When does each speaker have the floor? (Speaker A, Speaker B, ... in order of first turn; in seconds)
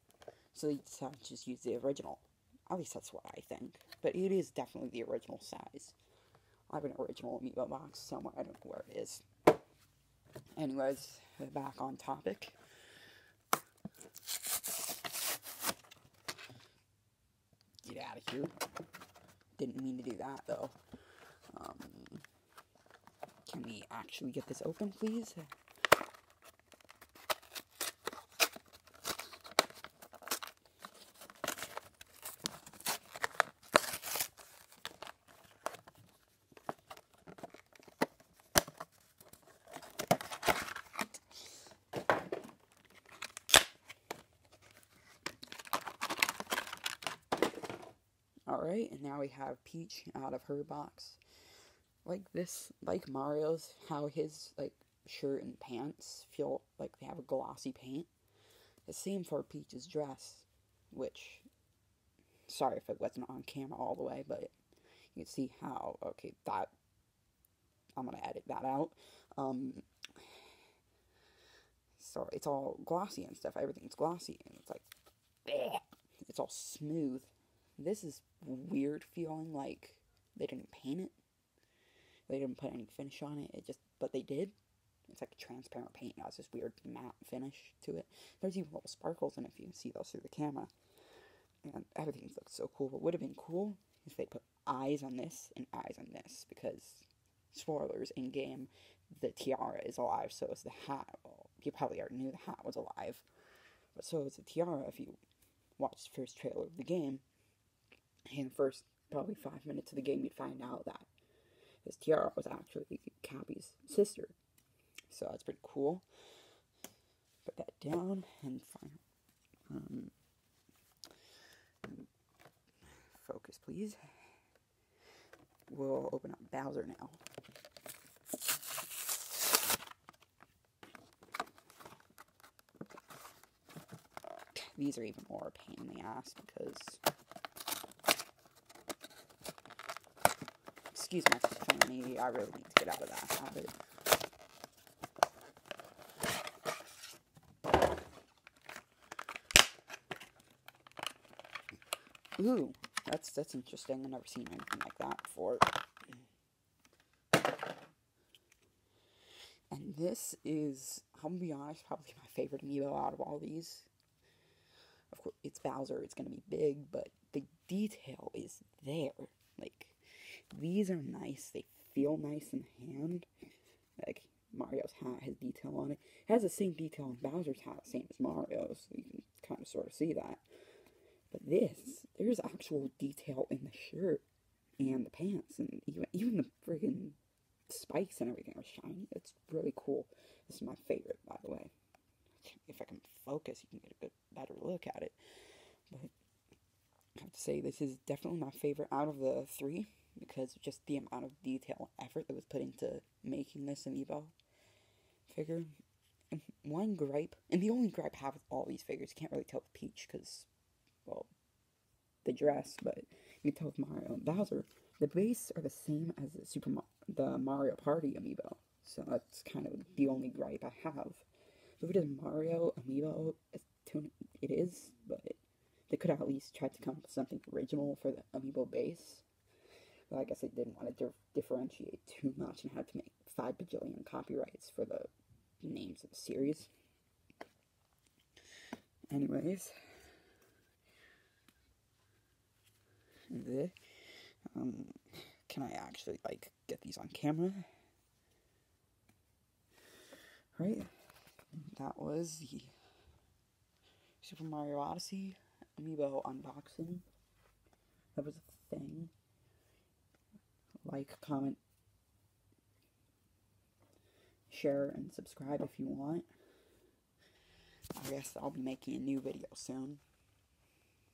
Speaker A: 0.5-6.0, 6.7-9.2, 10.6-12.6, 17.8-18.5, 19.6-20.8, 21.5-22.2, 23.4-25.5, 48.5-51.2, 52.0-58.1, 58.9-61.4, 62.5-64.5, 65.1-66.7, 68.0-70.4, 72.0-74.9, 75.4-81.2, 82.3-84.5, 85.1-90.7, 91.6-103.2, 103.9-105.2, 105.8-107.2, 108.2-111.1, 111.8-114.3, 115.1-116.0, 117.4-119.0, 119.7-120.1, 123.1-124.0, 125.7-127.2, 134.5-137.0, 140.9-143.7, 152.4-155.8, 159.7-163.9, 165.1-173.3, 174.0-180.4, 181.3-184.2, 184.8-187.2, 187.7-191.7, 192.4-196.1, 197.2-204.3, 205.3-205.7, 206.3-210.5, 212.2-221.2, 221.8-229.2, 230.1-236.7, 239.1-239.7, 243.3-243.8, 244.5-247.7, 250.5-250.9, 251.6-252.7, 254.2-257.0, 258.1-259.1, 260.8-261.6, 264.5-266.3, 267.9-270.0